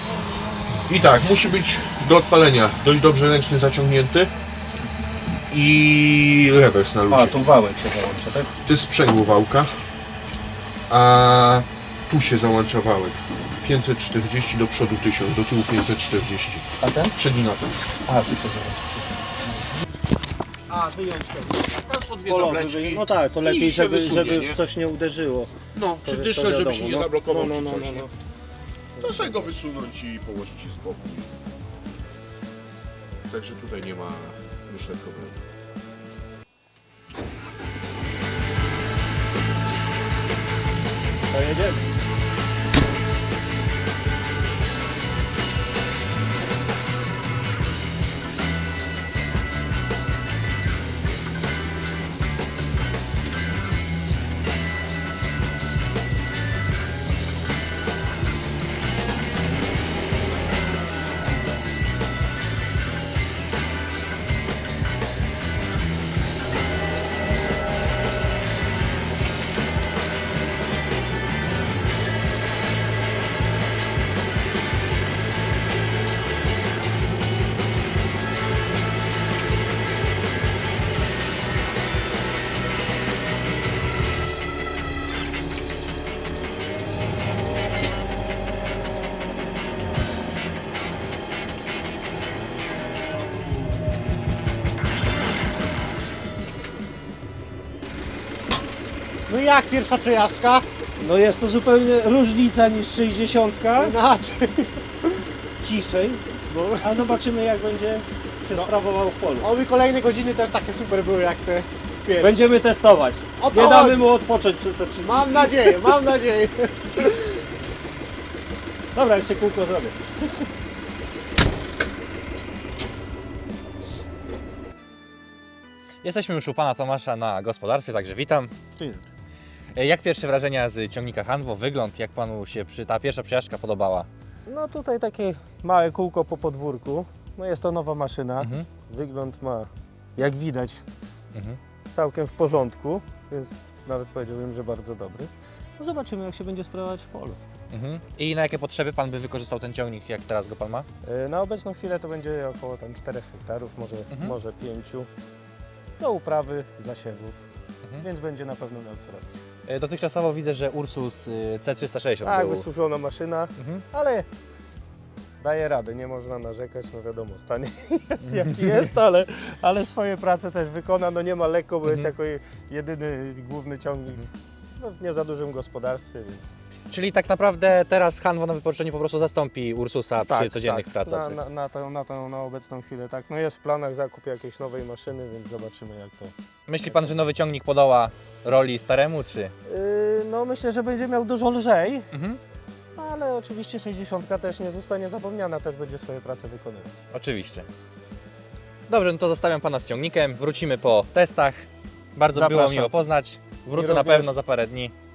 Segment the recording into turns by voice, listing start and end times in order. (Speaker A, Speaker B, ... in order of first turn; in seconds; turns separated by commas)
Speaker A: 0.9-4.3, Speaker A: 5.5-7.5, Speaker B: 7.1-8.5, Speaker A: 8.6-9.7, Speaker A: 10.9-17.9, Speaker B: 16.8-17.2, Speaker B: 18.1-19.0, Speaker A: 20.8-24.6, Speaker B: 22.2-28.1, Speaker A: 25.7-28.1, Speaker A: 29.0-31.3, Speaker B: 29.0-29.4, Speaker A: 33.3-35.4, Speaker B: 41.3-41.8, Speaker C: 99.3-100.7, Speaker B: 101.0-104.0, Speaker C: 103.8-104.8, Speaker B: 105.6-109.5, Speaker C: 106.5-107.1, Speaker C: 109.4-112.4, Speaker B: 112.2-115.9, Speaker C: 113.4-114.0, Speaker C: 115.0-117.2, Speaker B: 119.0-120.5, Speaker D: 126.0-128.5, Speaker B: 128.8-129.0, Speaker D: 129.8-134.1, Speaker B: 134.5-140.8, Speaker D: 138.4-138.7, Speaker D: 141.3-141.6, Speaker B: 141.9-147.4, Speaker D: 147.7-150.9, Speaker B: 151.0-155.1, Speaker D: 154.1-154.4, Speaker B: 156.0-157.4, Speaker B: 158.0-159.3, Speaker D: 159.7-162.7, Speaker B: 162.2-164.3, Speaker D: 163.6-163.8, Speaker B: 165.4-176.5, Speaker D: 171.8-172.1, Speaker D: 176.9-181.4, Speaker B: 180.2-187.1, Speaker D: 186.7-189.5, Speaker B: 189.7-192.1, Speaker D: 192.1-192.4, Speaker B: 193.0-197.0, Speaker D: 197.1-197.7, Speaker D: 198.9-204.9, Speaker B: 202.3-203.0, Speaker B: 203.7-204.3